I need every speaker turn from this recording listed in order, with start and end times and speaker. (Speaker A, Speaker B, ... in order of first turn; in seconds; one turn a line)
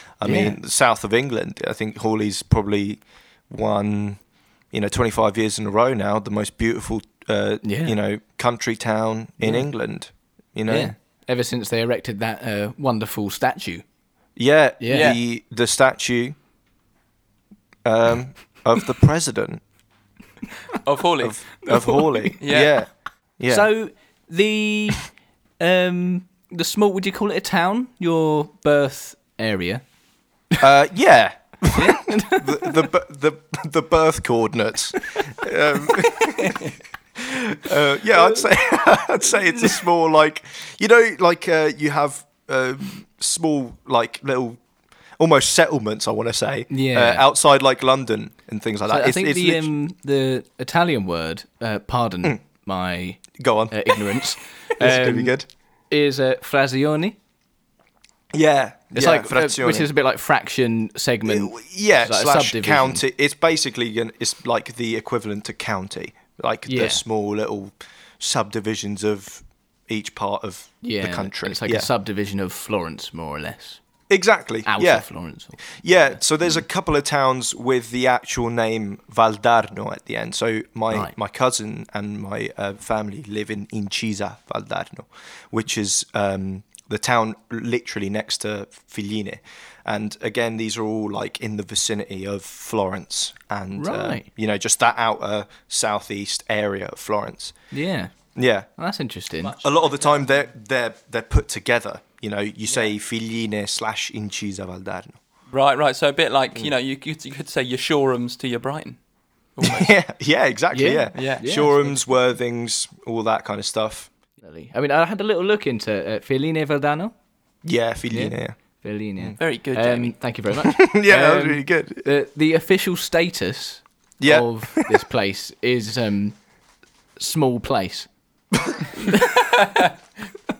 Speaker A: 0.2-4.2
Speaker B: 0.2-0.6
Speaker A: 4.7-10.9
Speaker B: 7.6-7.9
Speaker B: 9.4-9.7
Speaker B: 10.7-13.8
Speaker A: 14.3-16.4
Speaker B: 14.8-15.2
Speaker C: 14.9-15.2
Speaker A: 17.8-19.6
Speaker C: 20.8-21.4
Speaker A: 21.2-23.7
Speaker B: 21.6-22.4
Speaker C: 22.4-22.8
Speaker B: 23.5-25.1
Speaker B: 25.6-29.8
Speaker A: 30.6-44.6
Speaker B: 31.7-32.9
Speaker C: 36.4-36.7
Speaker A: 45.2-49.7
Speaker B: 46.7-47.2
Speaker B: 48.9-55.3
Speaker A: 53.3-54.0
Speaker A: 54.8-55.5
Speaker B: 55.9-57.1
Speaker A: 58.3-59.9
Speaker B: 58.9-63.0
Speaker A: 61.2-71.9
Speaker B: 66.7-67.0
Speaker B: 70.8-73.8
Speaker A: 74.1-75.0
Speaker B: 74.7-75.6
Speaker A: 75.7-97.5
Speaker B: 93.8-94.2
Speaker B: 97.7-98.1
Speaker A: 98.3-98.7
Speaker B: 98.8-99.5
Speaker C: 99.4-100.4
Speaker A: 99.6-105.2
Speaker C: 105.5-109.0
Speaker C: 109.5-109.9
Speaker A: 109.6-114.1
Speaker B: 110.7-112.0
Speaker C: 111.1-111.5
Speaker B: 114.4-117.1
Speaker A: 117.6-118.5
Speaker B: 118.1-126.4
Speaker C: 119.4-120.1
Speaker A: 120.6-122.0
Speaker A: 124.2-125.0
Speaker B: 127.2-128.1
Speaker A: 128.5-128.9
Speaker B: 128.9-129.5
Speaker C: 129.5-129.9